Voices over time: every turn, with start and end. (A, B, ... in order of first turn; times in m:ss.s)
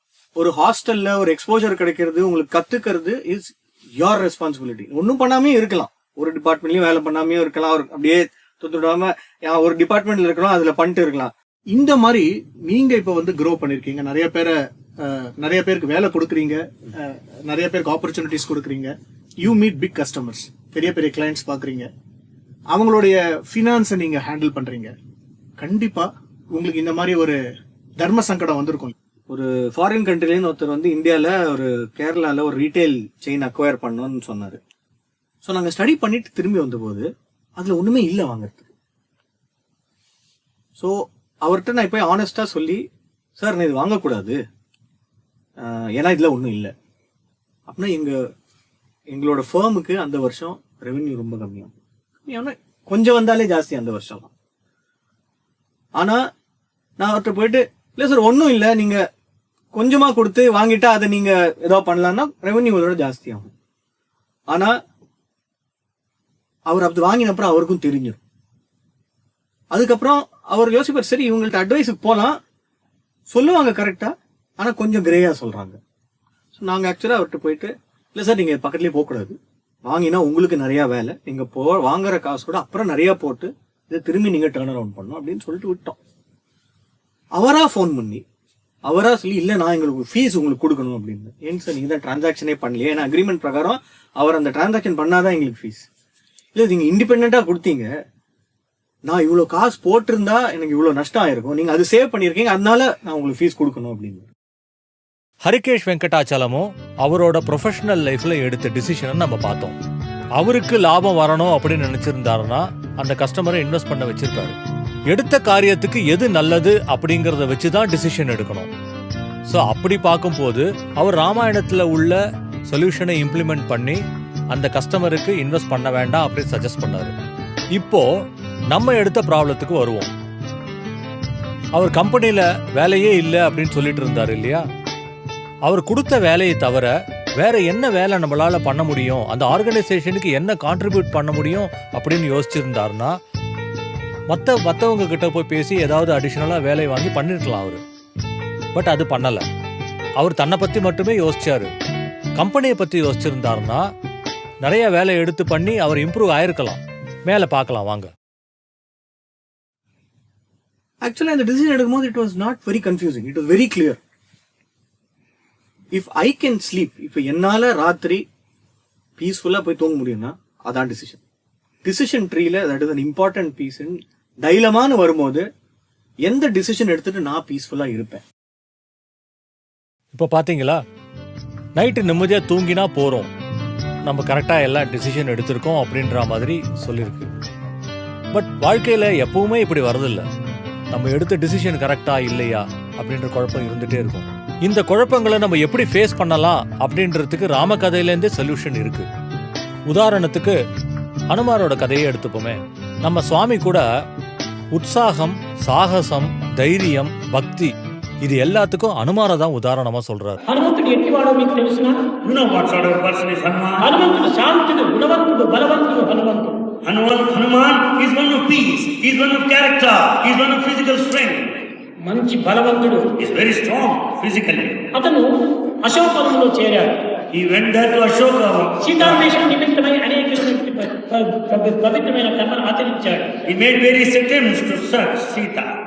0:00.4-0:11.3 A
0:11.7-0:21.9 B
0:22.7-0:24.9 B
0:25.6-0:27.4 B
0:28.0-0:28.9 B
0:29.3-0:34.6 A
0:35.4-0:38.7 A
0:40.8-0:42.8 A
0:43.4-0:44.4 A
0:45.6-0:46.7 A
0:47.7-0:48.2 A
0:49.1-0:51.7 A
0:52.2-0:54.3 A
0:56.0-0:56.2 A
0:57.0-0:59.0 A
0:59.8-1:03.5 A
1:04.5-1:04.8 A
1:06.7-1:08.2 A
1:09.7-1:12.4 A
1:13.3-1:15.8 A
1:16.6-1:26.0 A
1:27.4-1:28.2 A
1:28.9-1:35.9 A
1:36.5-1:37.9 A
1:39.0-1:44.3 A
1:45.5-1:49.7 C
1:50.4-1:54.6 C
1:55.1-1:58.7 C
1:59.5-2:04.0 C
2:04.5-2:07.1 C
2:07.8-2:08.1 C
2:08.7-2:10.1 C
2:11.8-2:14.6 C
2:15.7-2:23.2 C
2:24.3-2:27.8 C
2:28.8-2:29.4 C
2:30.2-2:31.7 C
2:32.4-2:33.9 C
2:34.6-2:38.1 C
2:41.0-2:44.0 A
2:45.9-2:48.2 A
2:49.2-2:51.2 A
2:51.8-2:55.5 A
2:56.2-2:58.2 A
3:00.1-3:00.8 C
3:01.8-3:03.3 C
3:04.0-3:07.3 C
3:08.3-3:10.3 C
3:10.9-3:19.1 C
3:19.9-3:20.6 C
3:21.3-3:23.9 C
3:24.7-3:30.4 C
3:30.5-3:32.0 D
3:32.2-3:34.0 E
3:33.8-3:36.7 D
3:36.8-3:41.6 E
3:42.0-3:43.2 D
3:43.2-3:44.9 E
3:44.9-3:47.2 D
3:47.3-3:49.4 E
3:48.8-3:53.4 D
3:53.4-3:55.7 E